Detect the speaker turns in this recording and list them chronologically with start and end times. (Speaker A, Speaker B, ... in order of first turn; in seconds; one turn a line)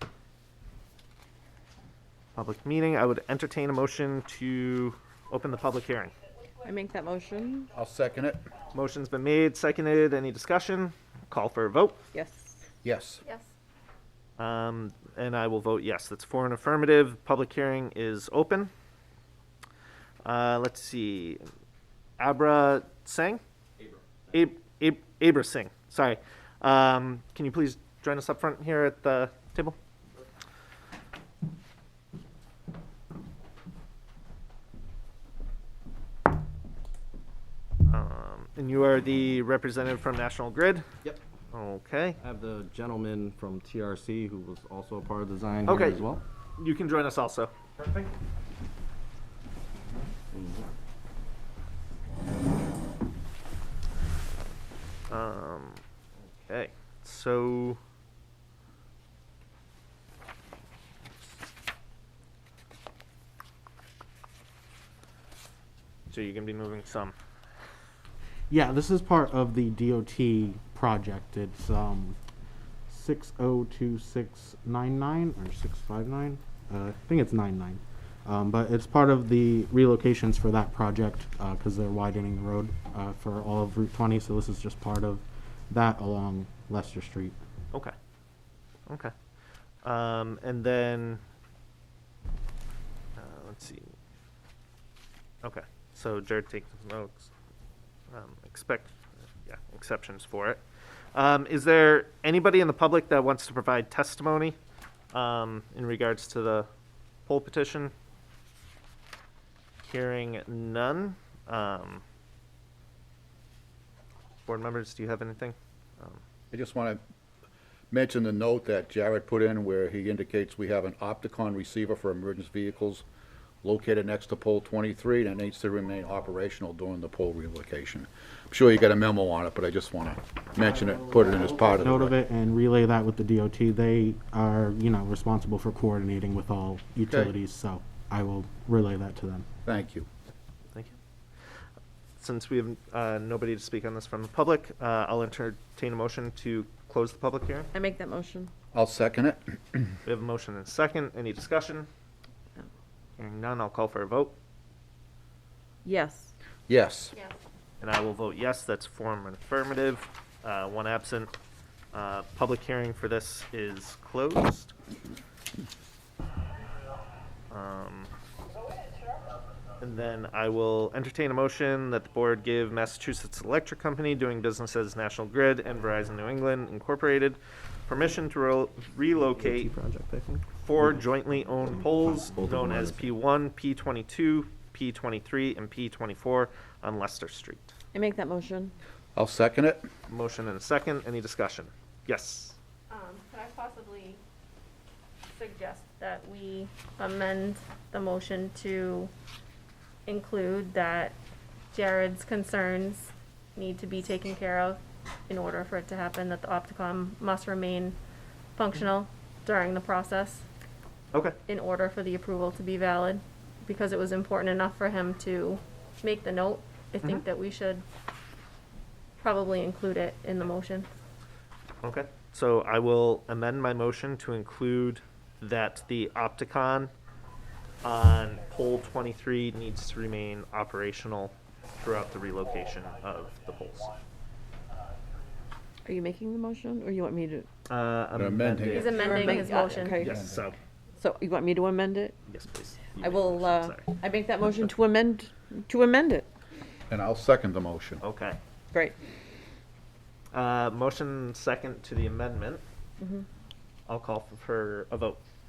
Speaker A: 2.3-6.1
Speaker B: 6.6-7.7
Speaker C: 7.7-8.4
Speaker A: 8.7-12.0
Speaker B: 12.1-12.6
Speaker C: 12.8-13.2
Speaker D: 13.2-13.5
Speaker A: 14.4-18.7
Speaker A: 20.2-21.4
Speaker A: 22.2-23.4
Speaker A: 24.3-29.8
Speaker A: 37.9-40.9
Speaker A: 41.5-42.2
Speaker E: 42.2-46.2
Speaker A: 45.6-47.5
Speaker E: 47.8-48.1
Speaker E: 50.3-50.6
Speaker A: 55.1-55.8
Speaker A: 56.4-57.8
Speaker A: 66.1-67.1
Speaker F: 68.5-72.2
Speaker F: 72.9-87.4
Speaker A: 88.9-89.1
Speaker A: 89.8-91.2
Speaker A: 93.2-93.9
Speaker A: 95.4-97.3
Speaker A: 98.1-100.6
Speaker A: 101.1-104.6
Speaker A: 105.1-106.7
Speaker A: 107.2-107.9
Speaker A: 109.8-112.0
Speaker A: 114.5-116.2
Speaker C: 116.5-117.0
Speaker C: 117.9-123.0
Speaker C: 123.6-132.1
Speaker F: 130.6-139.5
Speaker C: 137.1-137.3
Speaker C: 139.7-140.1
Speaker A: 140.7-141.0
Speaker A: 142.2-147.7
Speaker B: 147.7-148.5
Speaker C: 148.7-149.9
Speaker A: 150.0-151.9
Speaker A: 153.2-154.3
Speaker B: 155.8-156.3
Speaker C: 156.7-157.1
Speaker A: 157.8-161.3
Speaker A: 161.9-164.7
Speaker A: 167.5-168.1
Speaker A: 169.8-179.7
Speaker E: 179.7-183.1
Speaker A: 180.5-187.7
Speaker B: 187.9-188.7
Speaker C: 189.2-189.9
Speaker A: 190.1-192.6
Speaker D: 192.9-194.2
Speaker D: 195.3-199.1
Speaker D: 200.1-201.2
Speaker D: 201.7-208.0
Speaker D: 208.6-210.4
Speaker A: 211.1-211.4
Speaker D: 211.5-217.8
Speaker D: 219.2-220.9
Speaker A: 221.8-226.9
Speaker A: 227.8-233.9
Speaker B: 235.8-237.5
Speaker A: 237.7-240.6
Speaker C: 238.1-239.0
Speaker D: 238.6-240.0
Speaker B: 238.9-240.3
Speaker C: 239.9-240.4
Speaker B: 241.0-242.2
Speaker A: 242.3-243.9
Speaker B: 243.0-246.3
Speaker C: 246.9-248.0
Speaker A: 248.0-248.4
Speaker A: 250.3-252.6
Speaker B: 253.0-253.2
Speaker A: 253.9-255.2